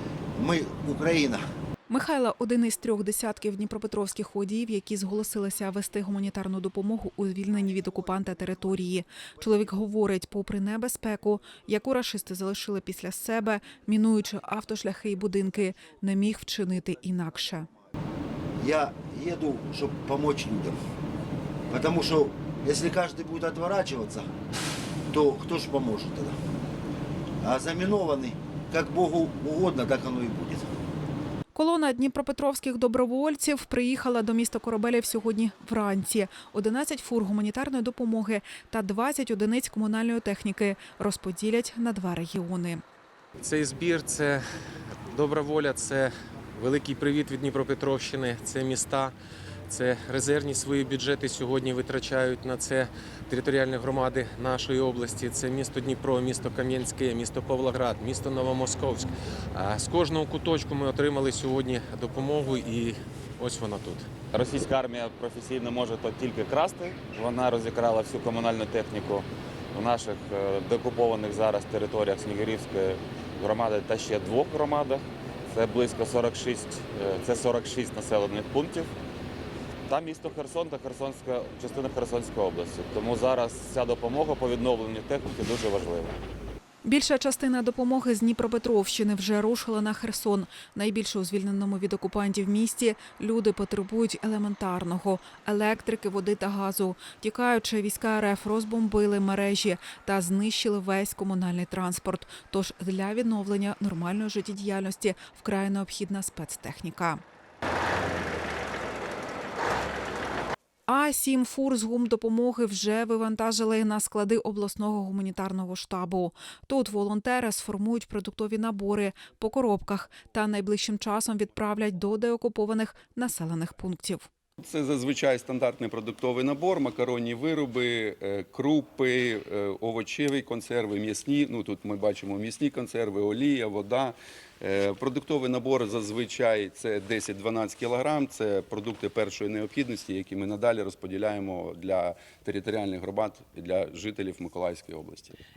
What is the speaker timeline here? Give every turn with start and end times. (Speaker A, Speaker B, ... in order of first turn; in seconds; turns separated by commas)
Speaker A: 0.3-1.4, Speaker B: 1.9-17.7, Speaker A: 18.6-20.8, Speaker A: 21.7-24.3, Speaker A: 25.1-26.3, Speaker A: 27.4-30.7, Speaker B: 31.5-42.8, Speaker C: 43.4-44.4, Speaker C: 45.1-49.1, Speaker C: 49.7-64.1, Speaker D: 64.3-78.9, Speaker D: 79.9-86.2, Speaker B: 86.8-107.2, Speaker B: 110.9-124.3, Speaker E: 124.6-145.4